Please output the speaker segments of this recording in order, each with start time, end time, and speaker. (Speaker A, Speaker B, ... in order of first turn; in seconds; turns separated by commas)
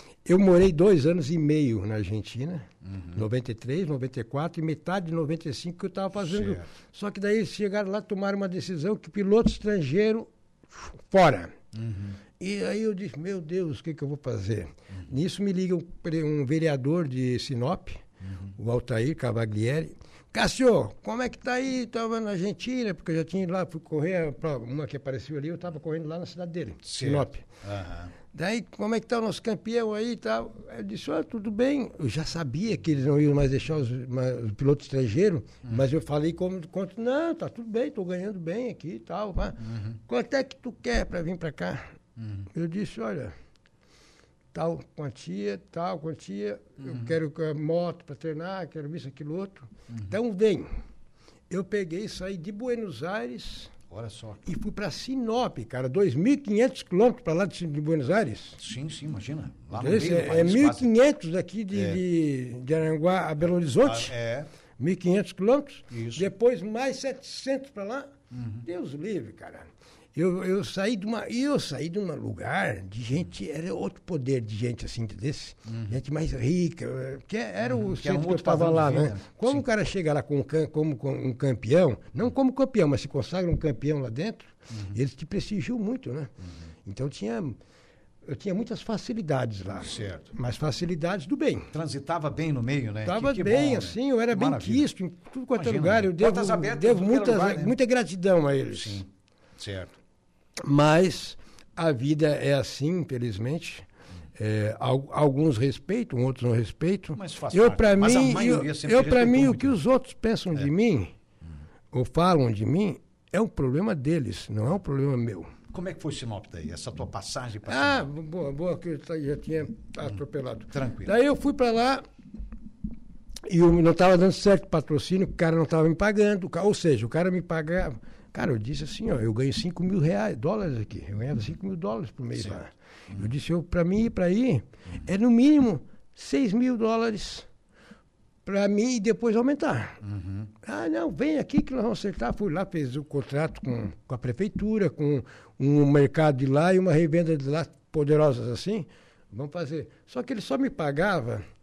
Speaker A: 0.2-11.5, Speaker B: 2.9-3.2, Speaker B: 6.3-6.7, Speaker B: 11.7-12.2, Speaker A: 12.4-18.0, Speaker B: 18.2-18.5, Speaker A: 18.6-27.5, Speaker B: 26.8-28.1, Speaker A: 28.3-41.8, Speaker B: 42.2-42.5, Speaker A: 42.5-43.3, Speaker A: 44.5-50.7, Speaker A: 51.5-53.7, Speaker B: 53.9-54.4, Speaker A: 54.5-58.6, Speaker B: 58.6-60.9, Speaker A: 59.7-64.1, Speaker B: 61.7-62.0, Speaker B: 63.8-64.5, Speaker A: 64.8-68.1, Speaker B: 65.9-66.3, Speaker B: 68.3-68.6, Speaker A: 68.6-86.3, Speaker B: 75.7-76.0, Speaker B: 77.6-79.6, Speaker A: 86.8-87.6, Speaker A: 88.2-91.7, Speaker B: 89.8-90.3, Speaker B: 91.7-94.9, Speaker A: 93.0-99.0, Speaker B: 95.5-97.8, Speaker B: 98.7-99.9, Speaker A: 100.6-111.1, Speaker B: 107.2-109.8, Speaker A: 111.9-115.5, Speaker B: 115.7-118.1, Speaker A: 117.7-122.0, Speaker B: 120.7-121.1, Speaker A: 123.5-137.5, Speaker A: 138.5-140.0, Speaker B: 140.0-140.5, Speaker A: 140.6-151.4